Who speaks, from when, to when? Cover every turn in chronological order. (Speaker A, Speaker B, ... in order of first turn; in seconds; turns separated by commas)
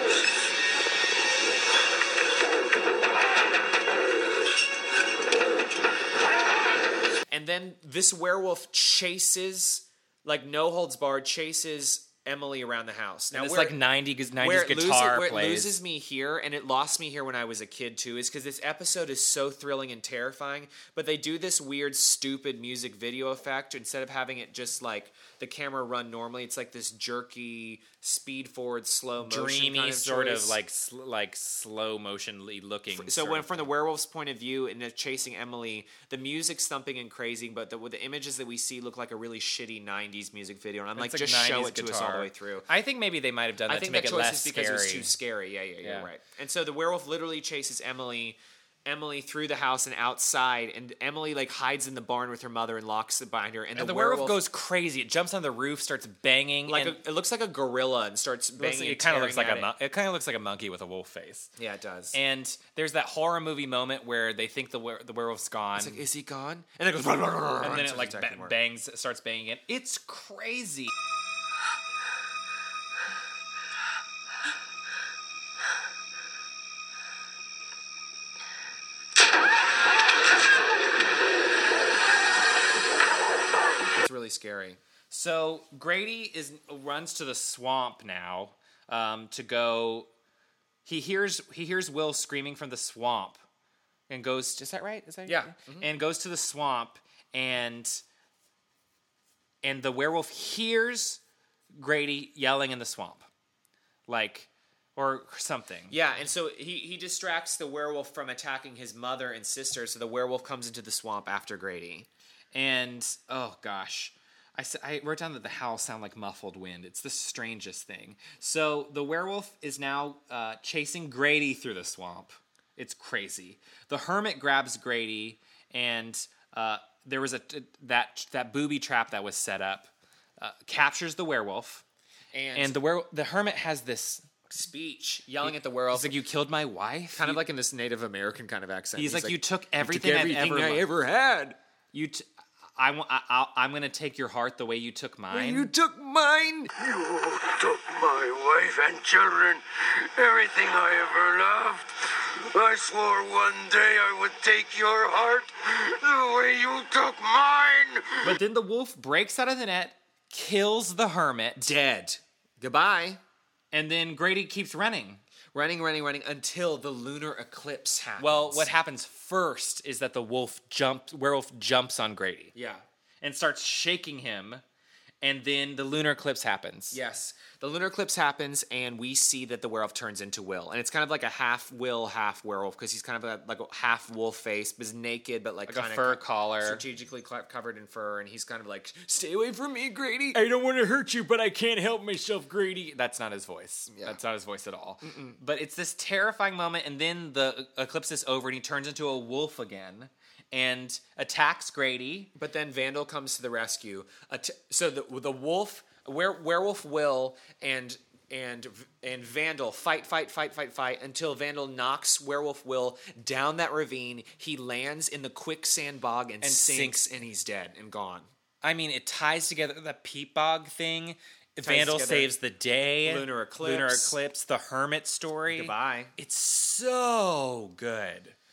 Speaker A: 7.3-13.8, Speaker B: 13.3-15.8, Speaker A: 14.4-30.6, Speaker B: 29.2-33.7, Speaker A: 32.9-42.7, Speaker B: 41.0-45.1, Speaker A: 43.7-54.4, Speaker B: 45.8-46.1, Speaker B: 53.8-57.0, Speaker A: 56.7-59.7, Speaker B: 58.6-61.5, Speaker A: 61.6-62.2, Speaker B: 62.1-66.0, Speaker A: 65.8-68.6, Speaker B: 67.6-70.9, Speaker A: 83.9-84.8, Speaker B: 85.1-90.1, Speaker B: 90.8-93.4, Speaker B: 94.1-98.0, Speaker A: 95.3-95.9, Speaker B: 99.6-101.2, Speaker B: 101.7-103.3, Speaker B: 104.1-106.0, Speaker A: 105.9-112.1, Speaker B: 112.5-131.8, Speaker A: 132.3-132.8, Speaker B: 132.5-134.3, Speaker A: 134.5-136.1, Speaker B: 135.4-137.4, Speaker A: 137.2-141.6, Speaker B: 139.0-140.9, Speaker B: 141.9-142.2, Speaker B: 142.8-145.7, Speaker A: 145.3-146.7, Speaker C: 146.8-158.4, Speaker B: 158.2-161.8, Speaker A: 161.6-163.2, Speaker B: 163.7-165.2, Speaker A: 165.5-168.7, Speaker B: 168.2-172.6, Speaker A: 172.5-172.8, Speaker B: 173.2-174.6, Speaker B: 175.2-177.0, Speaker A: 176.9-190.4, Speaker B: 185.7-186.8, Speaker B: 190.3-202.3, Speaker A: 193.9-194.2, Speaker A: 195.0-195.4, Speaker A: 202.4-218.3, Speaker B: 216.4-217.1, Speaker B: 218.6-228.4, Speaker A: 221.6-222.3, Speaker A: 223.0-224.2, Speaker A: 225.5-226.1